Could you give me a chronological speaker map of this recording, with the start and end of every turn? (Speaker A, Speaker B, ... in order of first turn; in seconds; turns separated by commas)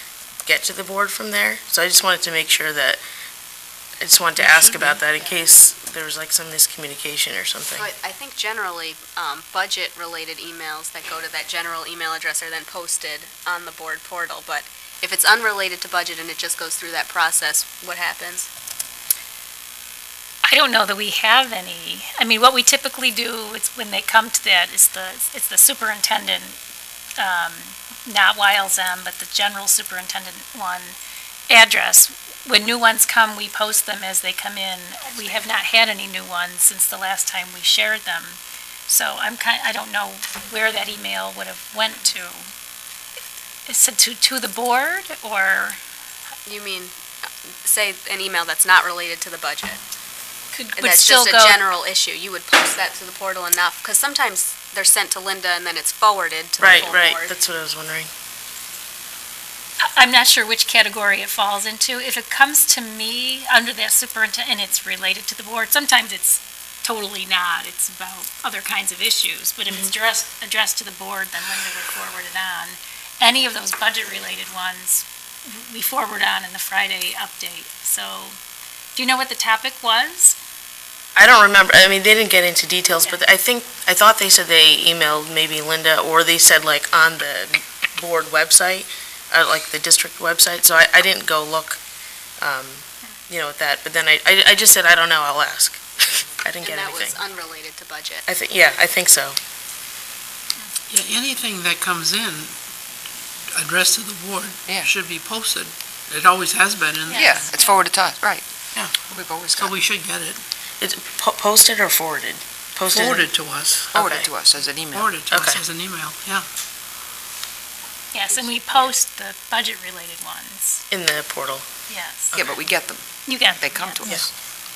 Speaker A: 0.5-3.0, Speaker A: 4.0-7.9, Speaker B: 4.4-5.0, Speaker C: 7.8-18.5, Speaker D: 20.5-26.6, Speaker D: 27.2-31.0, Speaker D: 31.5-42.5, Speaker D: 43.7-45.8, Speaker C: 46.5-47.0, Speaker C: 47.6-49.8, Speaker D: 50.5-51.6, Speaker C: 50.8-57.4, Speaker A: 56.6-58.1, Speaker D: 59.9-78.4, Speaker D: 79.0-80.4, Speaker A: 81.2-91.8, Speaker A: 92.4-97.2, Speaker C: 96.6-98.3, Speaker A: 98.3-99.4, Speaker B: 100.9-102.5, Speaker B: 103.5-107.3, Speaker E: 104.7-104.9, Speaker D: 107.1-107.8, Speaker E: 107.1-108.5, Speaker B: 108.8-110.4, Speaker E: 109.0-109.8, Speaker A: 110.8-113.3, Speaker B: 112.9-113.9, Speaker A: 113.9-114.3, Speaker E: 113.9-115.1, Speaker B: 114.9-116.5, Speaker A: 115.3-115.6, Speaker D: 118.1-120.8, Speaker C: 118.3-118.9, Speaker A: 120.9-121.7, Speaker D: 121.9-122.4, Speaker E: 122.3-124.3, Speaker D: 123.3-124.0